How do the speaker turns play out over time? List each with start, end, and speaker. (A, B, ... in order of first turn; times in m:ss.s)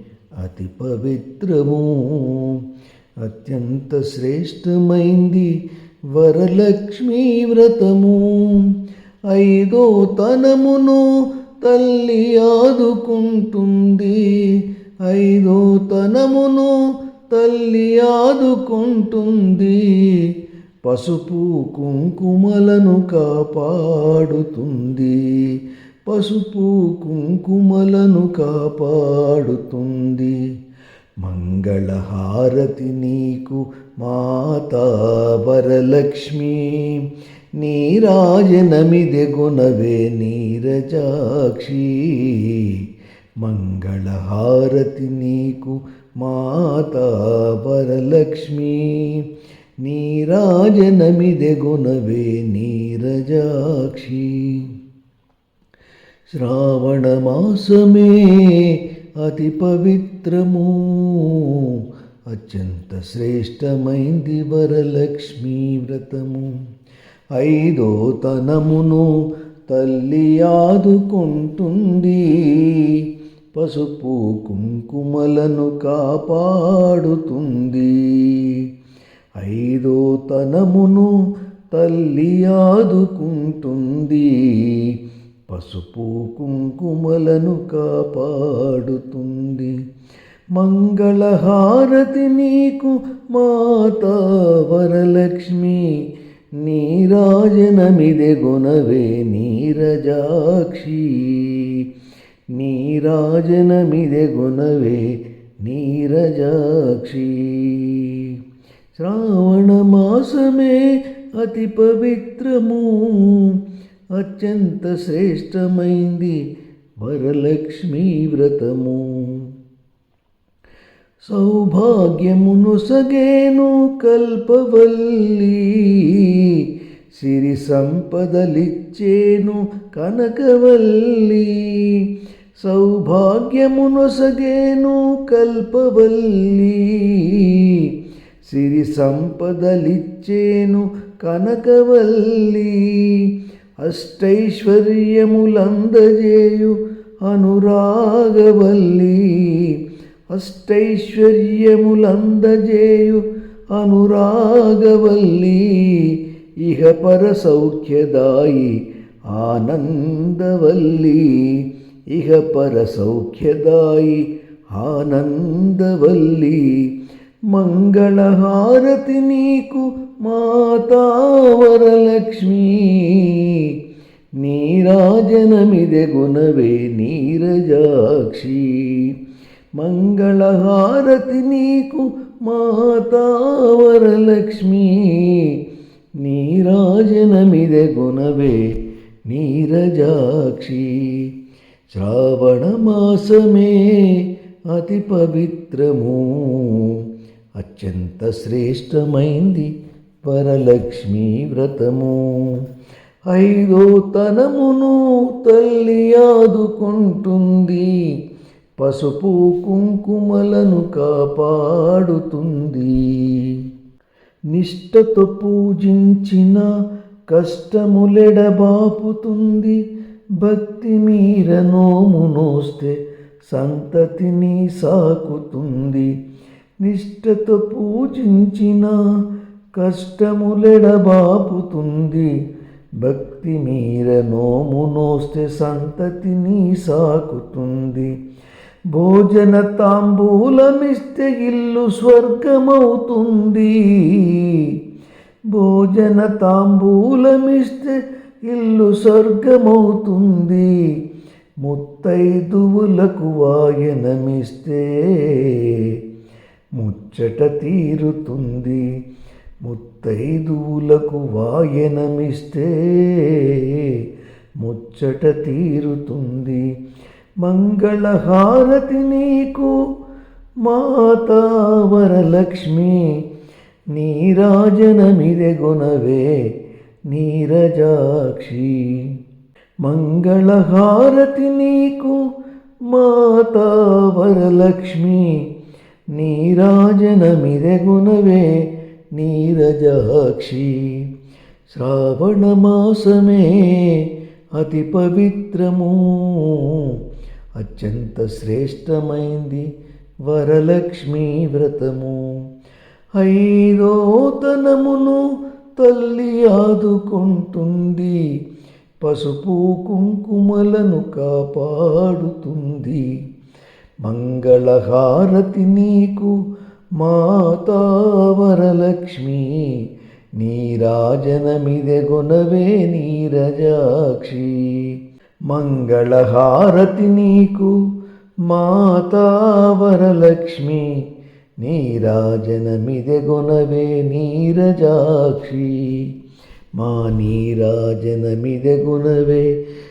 0:00.4-0:02.6 A
0:03.2-0:05.5 A
0:06.1-0:08.7 A
0:09.3-0:11.0 A
0:11.6-0:16.8 A
0:17.3-0:20.3 A
0:20.8-0:30.4 A
0:31.2-0:37.0 A
0:37.6-0:42.8 A
0:43.4-0:49.2 A
0:49.8-0:54.7 A
0:56.3-1:01.8 A
1:02.3-1:06.5 A
1:07.4-1:09.1 A
1:09.7-1:13.0 A
1:13.5-1:18.6 A
1:19.4-1:21.1 A
1:21.7-1:24.9 A
1:25.5-1:29.7 A
1:30.6-1:35.9 A
1:36.6-1:41.8 A
1:42.6-1:48.3 A
1:49.0-1:53.6 A
1:54.2-1:56.4 A
1:57.0-1:59.4 A
2:01.2-2:12.0 A
2:12.6-2:17.9 A
2:18.4-2:23.3 A
2:23.8-2:29.8 A
2:30.3-2:33.2 A
2:33.7-2:38.7 A
2:39.3-2:46.7 A
2:47.5-2:53.7 A
2:54.4-2:59.1 A
2:59.8-3:05.6 A
3:06.2-3:08.6 A
3:09.3-3:11.3 A
3:11.9-3:17.0 A
3:17.6-3:19.7 A
3:20.2-3:22.6 A
3:23.3-3:27.9 A
3:28.8-3:33.6 A
3:34.5-3:36.7 A
3:37.3-3:39.8 A
3:40.4-3:43.0 A
3:43.5-3:46.1 A
3:46.8-3:49.0 A
3:49.8-3:52.3 A
3:53.0-3:58.1 A
3:58.9-4:04.7 A
4:05.5-4:10.7 A
4:11.6-4:16.0 A
4:16.8-4:18.8 A
4:19.6-4:24.0 A
4:24.6-4:26.6 A
4:27.4-4:29.7 A
4:30.6-4:33.1 A
4:33.9-4:36.3 A
4:37.1-4:39.1 A
4:39.8-4:42.2 A
4:42.9-4:45.4 A
4:46.1-4:48.5 A
4:49.1-4:51.0 A
4:51.7-4:56.9 A
4:57.6-4:59.7 A
5:00.3-5:02.2 A
5:03.2-5:05.2 A
5:05.8-5:08.2 A
5:09.0-5:13.1 A
5:14.0-5:16.3 A
5:17.0-5:19.8 A
5:20.4-5:24.9 A
5:25.5-5:27.7 A
5:28.5-5:30.9 A
5:31.6-5:36.1 A
5:36.8-5:39.5 A